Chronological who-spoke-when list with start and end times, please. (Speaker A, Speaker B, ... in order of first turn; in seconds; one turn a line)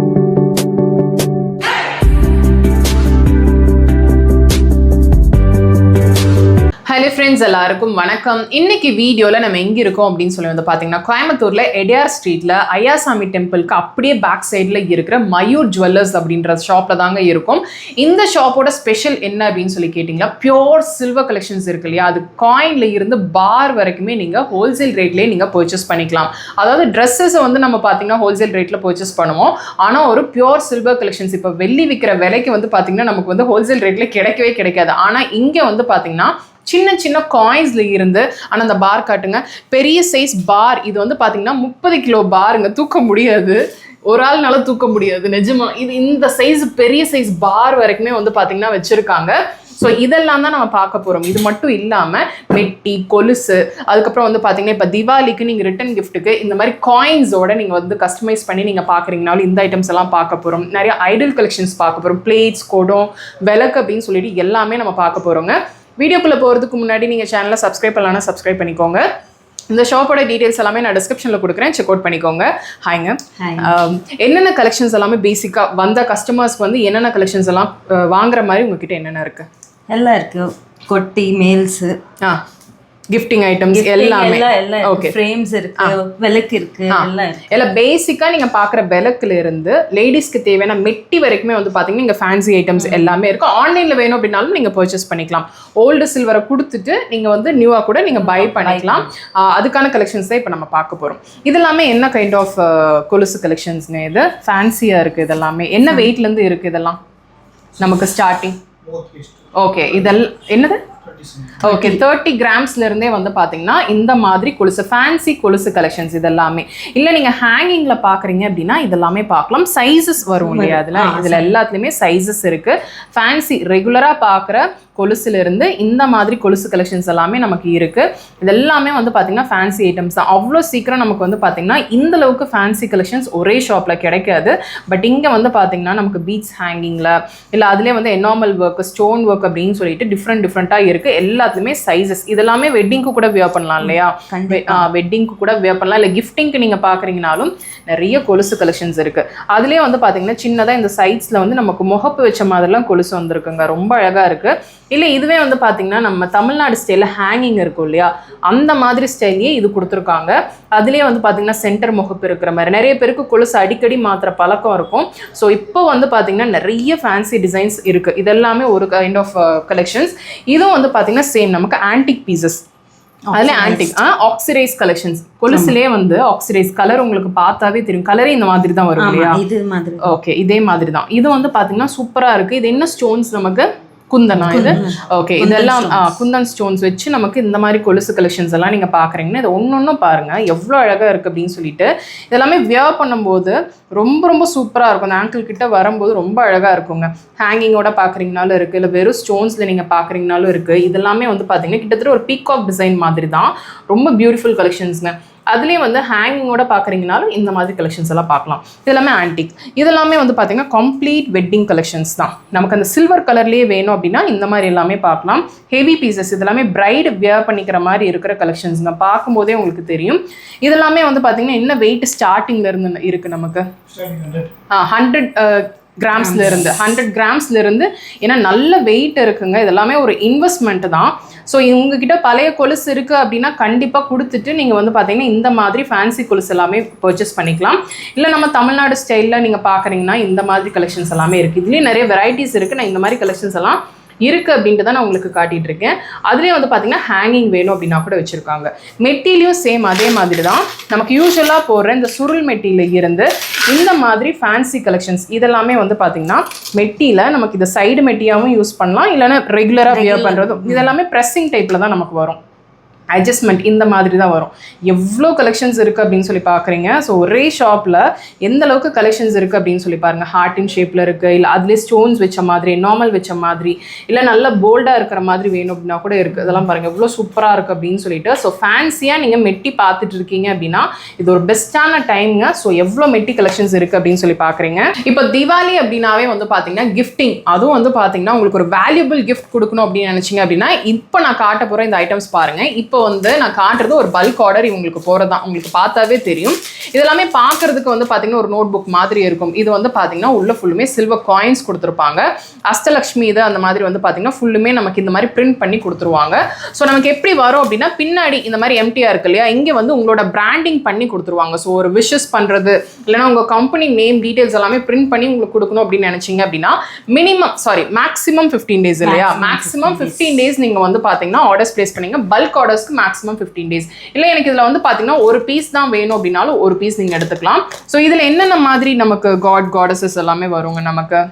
Speaker A: 6.9-69.0
Speaker A: 69.7-79.5
Speaker B: 73.4-73.7
Speaker B: 79.9-82.0
Speaker A: 83.1-85.1
Speaker B: 83.7-87.5
Speaker A: 86.9-107.0
Speaker B: 92.8-93.1
Speaker B: 98.2-99.1
Speaker A: 107.8-108.6
Speaker A: 109.5-110.8
Speaker A: 111.6-172.6
Speaker B: 111.6-112.0
Speaker B: 120.4-121.6
Speaker B: 143.8-144.9
Speaker B: 173.3-173.9
Speaker A: 173.3-179.4
Speaker B: 179.0-180.2
Speaker A: 180.0-223.7
Speaker B: 184.4-186.2
Speaker A: 224.7-262.4
Speaker B: 226.2-226.7
Speaker B: 259.9-260.9
Speaker A: 263.1-331.2
Speaker B: 319.0-320.3